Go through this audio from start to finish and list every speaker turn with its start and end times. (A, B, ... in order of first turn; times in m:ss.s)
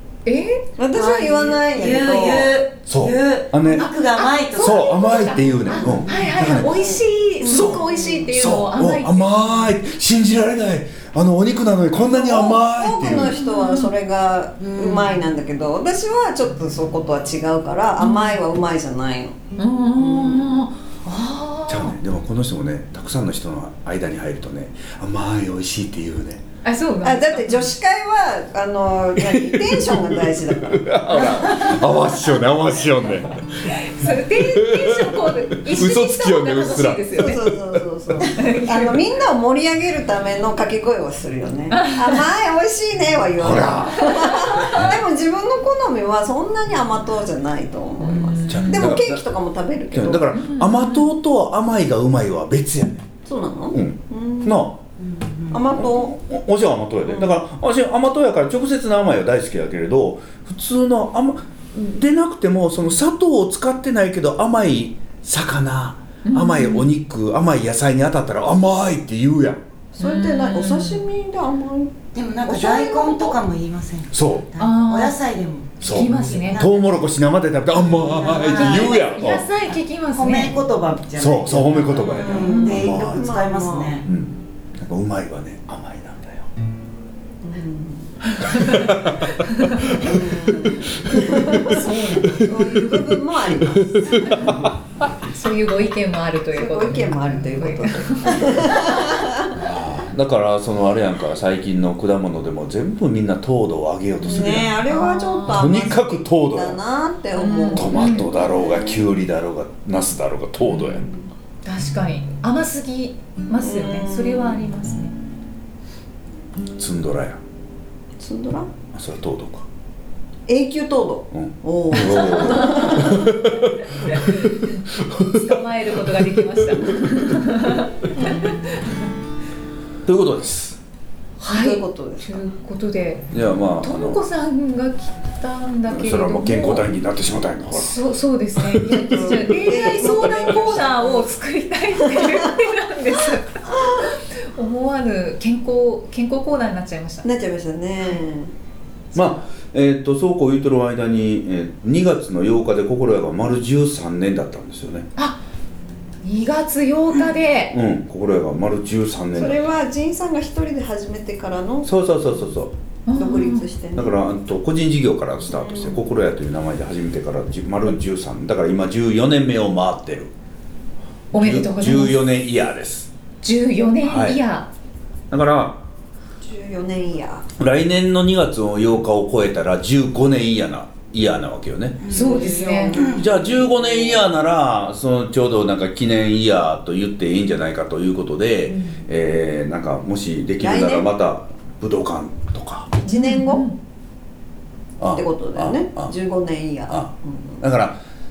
0:00.2-0:01.2 A
0:00.8-0:02.6 B
0:01.0-0:05.0 C
0:02.9-0:03.9 D
0:03.8-0:09.5 A
0:04.6-0:06.8 D
0:05.8-0:06.3 C
0:06.6-0:08.2 B
0:07.4-0:13.4 D
0:12.0-0:19.4 B
0:13.4-0:13.9 A
0:14.6-0:15.2 C
0:18.0-0:18.4 A
0:19.6-0:22.0 A
0:20.0-0:20.6 B
0:21.7-0:26.4 D
0:26.6-0:27.6 A
0:27.0-0:31.2 B
0:29.2-0:33.4 D
0:33.7-0:37.4 A
0:34.0-0:37.8 D
0:37.2-0:50.3 B
0:38.4-0:39.0 A
0:41.7-0:42.1 A
0:43.4-0:45.0 D
0:48.0-0:49.0 A
0:48.5-0:49.2 D
0:49.9-0:53.1 D
0:50.3-0:51.1 A
0:53.2-0:54.6 B
0:53.7-0:54.8 D
0:55.0-0:55.6 C
0:55.5-0:56.1 B
0:55.8-1:09.6 D
0:57.1-0:57.4 B
1:06.2-1:06.9 A
1:10.0-1:13.4 B
1:10.0-1:11.0 A
1:12.1-1:17.0 C
1:14.1-1:14.5 D
1:14.6-1:15.2 A
1:15.8-1:16.6 A
1:15.8-1:19.5 D
1:17.9-1:19.1 C
1:18.3-1:20.6 A
1:20.1-1:24.1 C
1:21.2-1:23.2 D
1:22.2-1:24.0 B
1:22.4-1:22.8 A
1:24.0-1:26.5 D
1:27.4-1:28.1 B
1:28.4-1:29.9 A
1:28.5-1:34.7 D
1:29.9-1:34.5 B
1:31.3-1:32.5 A
1:35.1-1:38.9 A
1:36.5-1:39.6 B
1:39.5-1:44.8 D
1:44.2-1:49.0 B
1:44.9-1:45.7 A
1:45.5-1:46.8 D
1:47.4-1:48.3 A
1:47.7-1:51.1 D
1:50.8-1:51.2 B
1:51.6-1:55.1 A
1:53.6-1:54.6 B
1:56.8-1:57.4 D
1:58.2-1:58.7 B
1:58.9-1:59.7 D
2:00.5-2:03.3 B
2:01.3-2:05.6 D
2:02.0-2:03.1 A
2:04.0-2:09.1 A
2:06.2-2:07.4 D
2:10.0-2:10.8 D
2:11.4-2:16.9 A
2:11.5-2:12.4 B
2:13.3-2:14.2 D
2:15.9-2:18.0 D
2:17.7-2:27.2 A
2:18.6-2:19.8 D
2:18.8-2:21.3 B
2:22.1-2:22.5 B
2:27.2-2:28.5 B
2:29.1-2:35.1 D
2:35.2-2:35.4 A
2:36.2-2:37.8 A
2:37.7-2:39.6 D
2:39.4-2:42.0 B
2:41.8-2:42.7 D
2:43.1-2:43.7 A
2:43.1-2:44.1 B
2:44.0-2:50.3 D
2:45.5-2:46.0 B
2:51.3-2:52.2 A
2:51.3-2:53.1 D
2:53.4-2:54.7 A
2:54.0-2:54.4 D
2:55.3-2:55.8 D
2:56.4-2:57.5 B
2:57.6-3:02.0 D
3:02.0-3:03.2 C
3:02.1-3:03.0 A
3:02.1-3:04.2 B
3:03.1-3:13.0 D
3:10.6-3:11.1 B
3:13.0-3:13.8 A
3:13.1-3:13.6 B
3:15.0-3:16.1 D
3:15.0-3:17.6 B
3:17.6-3:18.0 D